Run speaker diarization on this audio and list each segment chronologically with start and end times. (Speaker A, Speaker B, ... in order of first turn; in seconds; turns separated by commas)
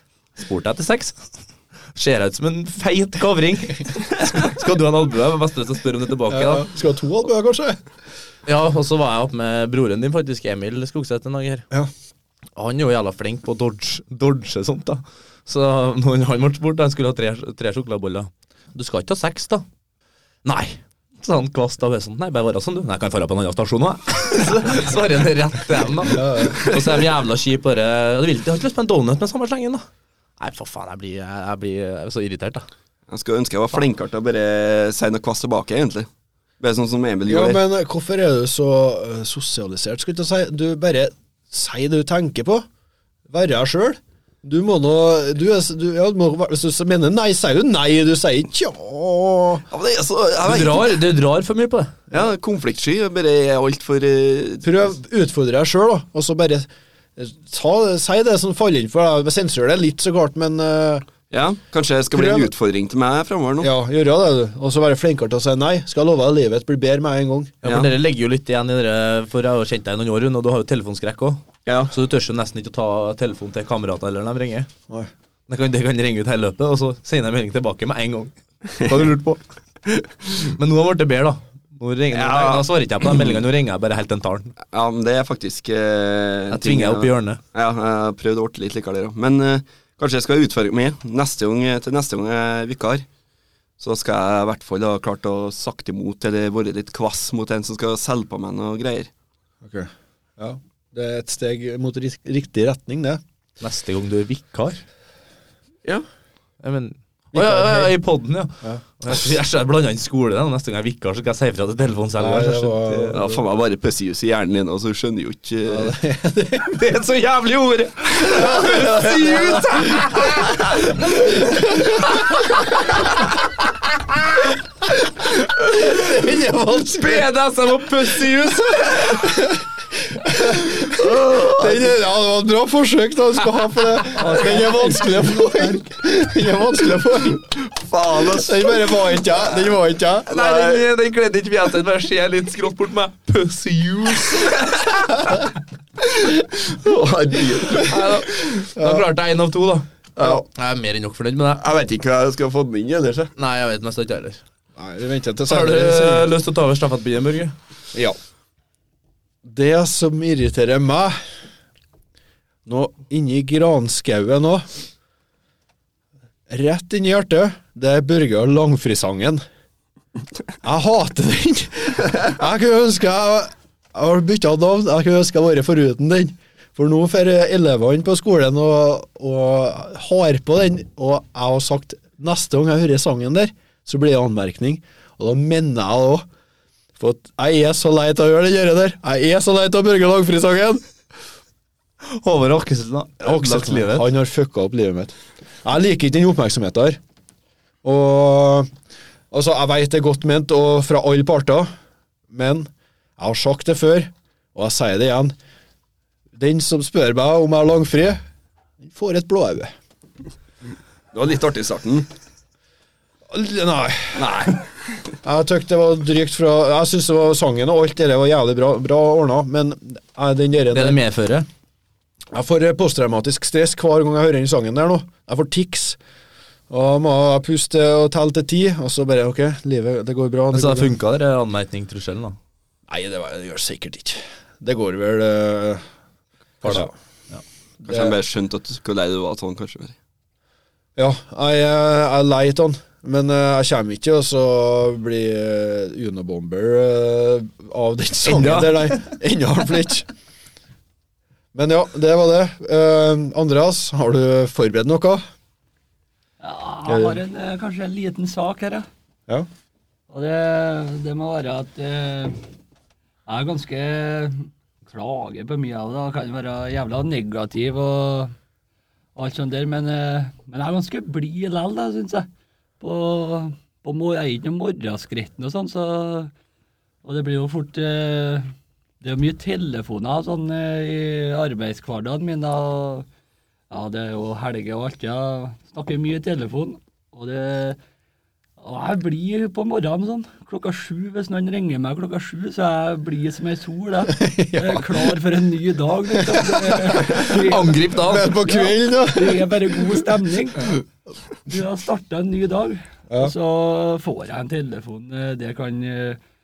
Speaker A: 0.4-1.2, Speaker A: 1.9-6.7, Speaker B: 6.3-7.8, Speaker A: 8.5-11.7, Speaker A: 12.6-19.6, Speaker A: 20.4-29.9, Speaker B: 26.1-26.7, Speaker A: 30.4-32.6, Speaker C: 33.1-36.1, Speaker C: 36.6-37.6, Speaker B: 37.3-42.7, Speaker B: 43.3-49.6, Speaker C: 49.7-51.0, Speaker A: 50.4-51.9, Speaker C: 52.1-54.9, Speaker B: 54.6-61.1, Speaker C: 61.3-63.7, Speaker B: 62.1-62.5, Speaker B: 63.6-67.5, Speaker A: 67.6-74.7, Speaker C: 67.6-67.9, Speaker C: 71.7-71.9, Speaker A: 75.5-79.4, Speaker A: 80.4-84.5, Speaker C: 82.1-83.4, Speaker C: 84.7-93.1, Speaker A: 86.5-87.4, Speaker C: 93.8-99.1, Speaker B: 99.6-103.2, Speaker A: 103.6-104.8, Speaker A: 106.6-113.2, Speaker B: 107.3-107.9, Speaker B: 112.2-113.4, Speaker C: 113.1-115.9, Speaker B: 115.7-116.8, Speaker A: 116.7-122.4, Speaker B: 118.3-120.0, Speaker B: 125.7-127.3, Speaker A: 126.0-129.3, Speaker B: 129.2-129.6, Speaker B: 130.1-131.0, Speaker C: 130.8-131.9, Speaker B: 131.5-137.4, Speaker D: 134.2-135.2, Speaker A: 134.2-134.6, Speaker C: 137.5-139.4, Speaker B: 138.3-140.3, Speaker A: 140.3-145.3, Speaker C: 140.3-140.9, Speaker C: 146.7-148.2, Speaker A: 147.8-151.6, Speaker B: 148.8-149.0, Speaker C: 150.2-150.4, Speaker C: 151.6-153.3, Speaker A: 153.4-154.4, Speaker B: 154.8-156.3, Speaker A: 155.5-157.5, Speaker B: 159.4-161.2, Speaker B: 162.7-164.7, Speaker B: 166.5-169.4, Speaker B: 170.6-186.3, Speaker B: 187.0-190.8, Speaker A: 192.1-194.1, Speaker B: 193.2-197.0, Speaker B: 197.8-198.7, Speaker B: 199.3-201.7, Speaker B: 202.3-205.3, Speaker B: 206.4-208.2, Speaker B: 208.8-209.7, Speaker C: 211.1-212.1, Speaker B: 213.3-214.3, Speaker C: 214.1-214.6, Speaker B: 215.2-221.0, Speaker A: 220.7-221.5, Speaker B: 222.3-226.0, Speaker B: 226.7-231.0, Speaker A: 230.5-232.4, Speaker B: 232.9-235.8, Speaker B: 236.6-236.9, Speaker A: 236.6-237.4, Speaker C: 237.8-239.9, Speaker B: 237.9-238.2, Speaker B: 241.0-250.1, Speaker A: 248.3-249.1, Speaker B: 251.5-255.2, Speaker D: 256.4-258.9, Speaker B: 256.9-257.2, Speaker D: 260.1-262.4, Speaker D: 263.3-268.3, Speaker D: 269.2-272.3, Speaker D: 272.8-276.3, Speaker D: 277.0-283.1, Speaker D: 283.7-287.8, Speaker D: 288.6-300.8, Speaker B: 294.1-295.1, Speaker B: 296.2-297.3, Speaker A: 297.0-298.4, Speaker B: 298.0-300.0, Speaker D: 301.5-306.2